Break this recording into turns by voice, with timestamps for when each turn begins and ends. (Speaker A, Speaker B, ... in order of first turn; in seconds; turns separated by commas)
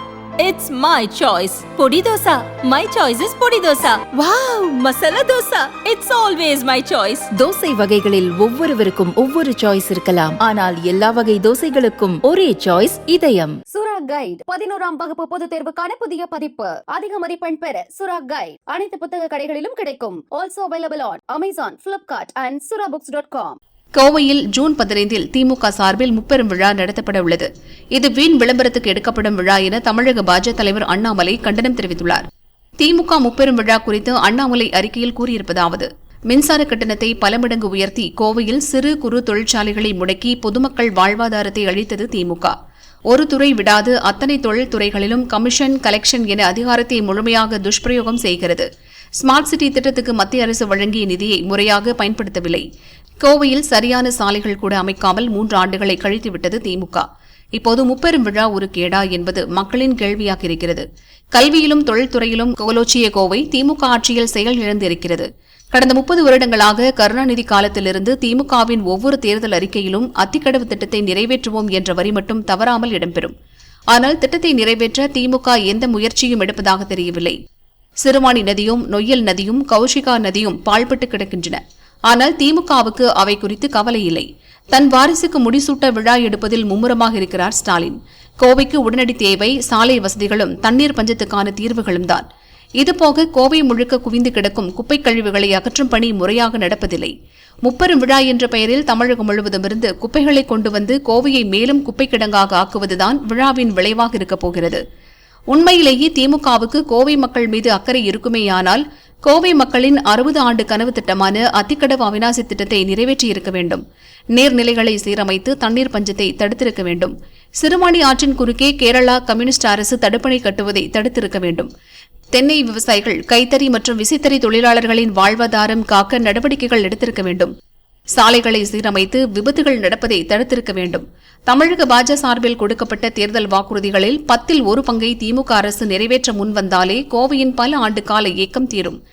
Speaker A: 0.4-7.3, Speaker B: 7.3-10.4, Speaker A: 9.9-11.8, Speaker B: 11.1-13.6, Speaker A: 12.5-13.5, Speaker C: 13.7-23.6, Speaker D: 24.0-32.2, Speaker D: 32.8-42.5, Speaker D: 43.1-48.7, Speaker D: 49.2-52.6, Speaker D: 53.2-73.3, Speaker D: 73.9-77.4, Speaker D: 78.0-92.2, Speaker D: 92.8-97.1, Speaker D: 97.7-104.8, Speaker D: 105.5-113.8, Speaker D: 114.4-121.7, Speaker D: 122.3-127.5, Speaker D: 128.1-139.0